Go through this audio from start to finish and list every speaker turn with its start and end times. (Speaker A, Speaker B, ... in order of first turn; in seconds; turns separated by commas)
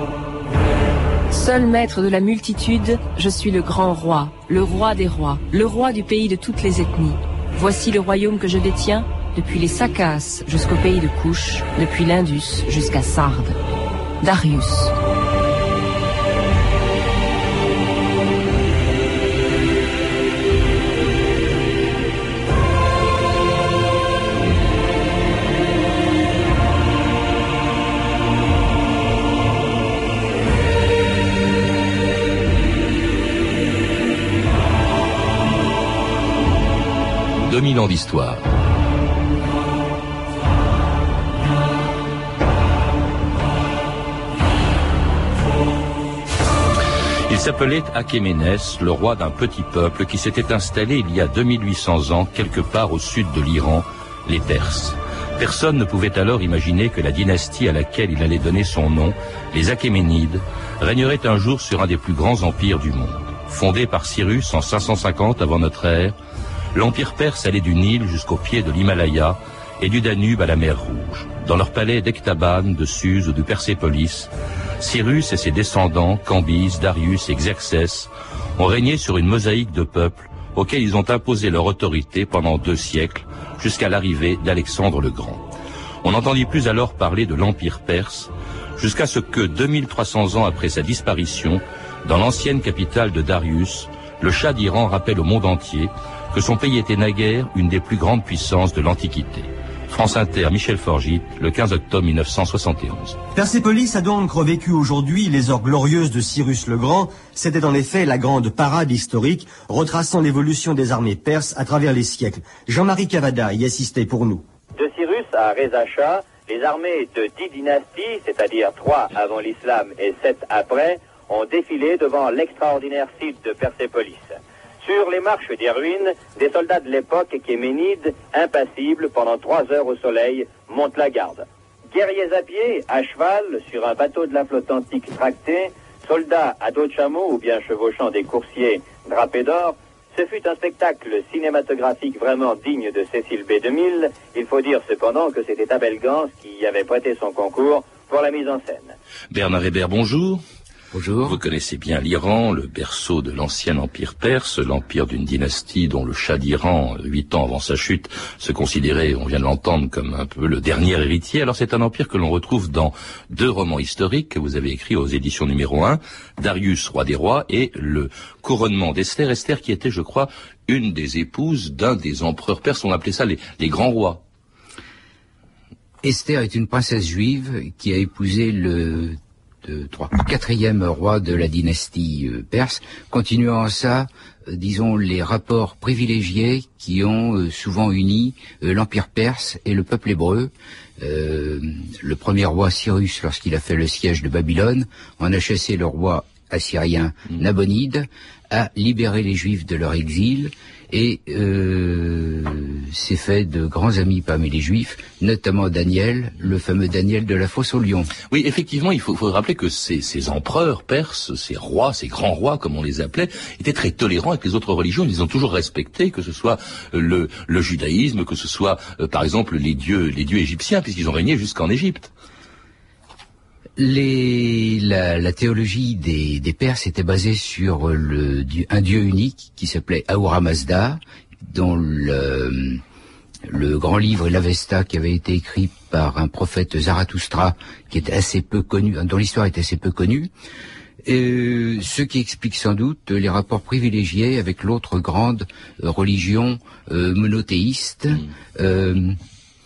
Speaker A: 1.3-13.6, Speaker A: 14.2-14.9, Speaker B: 37.4-38.4, Speaker B: 47.3-66.1, Speaker B: 66.7-85.4, Speaker B: 86.0-103.2, Speaker C: 103.3-114.4, Speaker D: 114.8-148.9, Speaker B: 149.3-150.4, Speaker E: 150.9-151.4, Speaker B: 151.2-174.2, Speaker E: 176.0-208.1, Speaker B: 208.3-222.1, Speaker E: 223.8-232.8, Speaker E: 233.5-240.3, Speaker E: 241.0-249.2